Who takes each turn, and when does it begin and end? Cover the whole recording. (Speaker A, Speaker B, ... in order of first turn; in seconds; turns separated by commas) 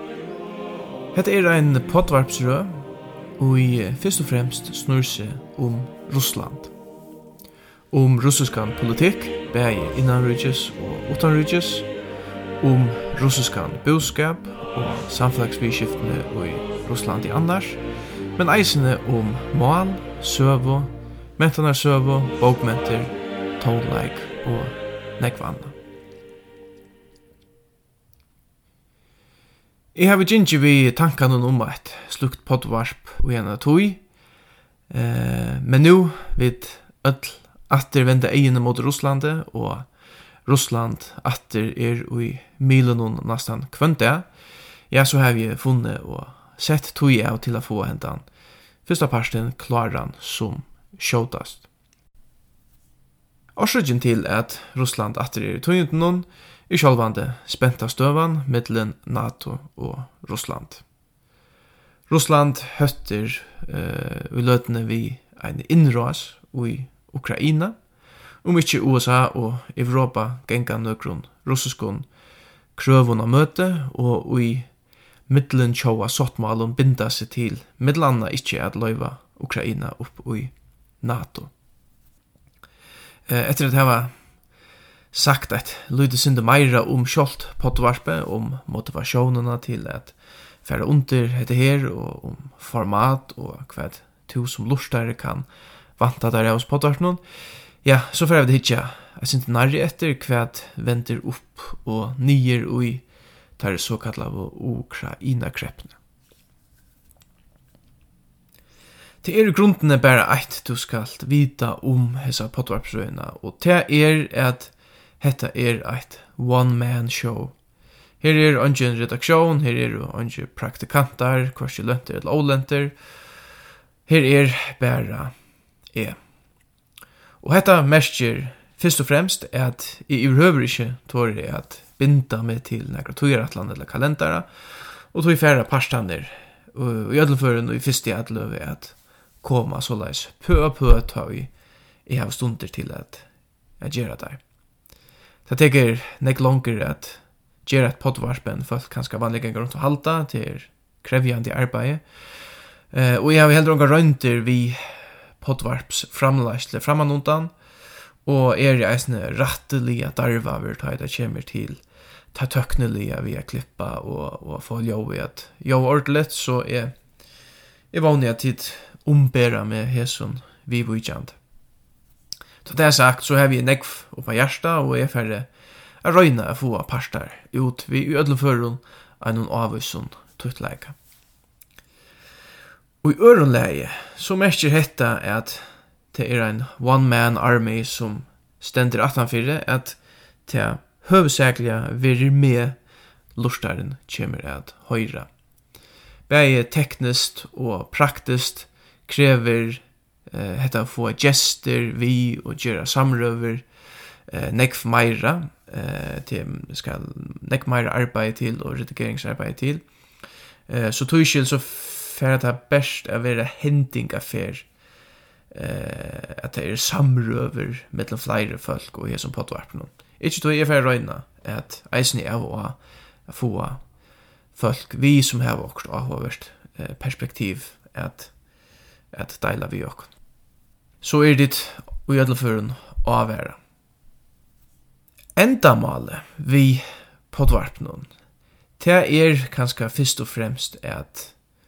Speaker A: 1.1-6.7, Speaker A: 7.9-11.9, Speaker A: 12.6-17.8, Speaker A: 18.3-25.8, Speaker A: 29.9-34.1, Speaker A: 34.9-48.3, Speaker A: 48.8-51.7, Speaker A: 53.5-60.8, Speaker A: 62.1-67.8, Speaker A: 68.4-72.1, Speaker A: 72.8-74.7, Speaker A: 75.3-81.5, Speaker A: 83.3-84.2, Speaker A: 85.1-106.0, Speaker A: 109.2-117.6, Speaker A: 118.2-123.3, Speaker A: 124.1-126.2, Speaker A: 127.4-144.4, Speaker A: 145.4-167.3, Speaker A: 167.9-171.4, Speaker A: 172.6-181.0, Speaker A: 183.0-192.8, Speaker A: 193.3-195.3, Speaker A: 196.3-209.9, Speaker A: 210.7-214.7, Speaker A: 215.5-230.2, Speaker A: 231.0-233.6, Speaker A: 235.4-238.1, Speaker A: 238.8-241.4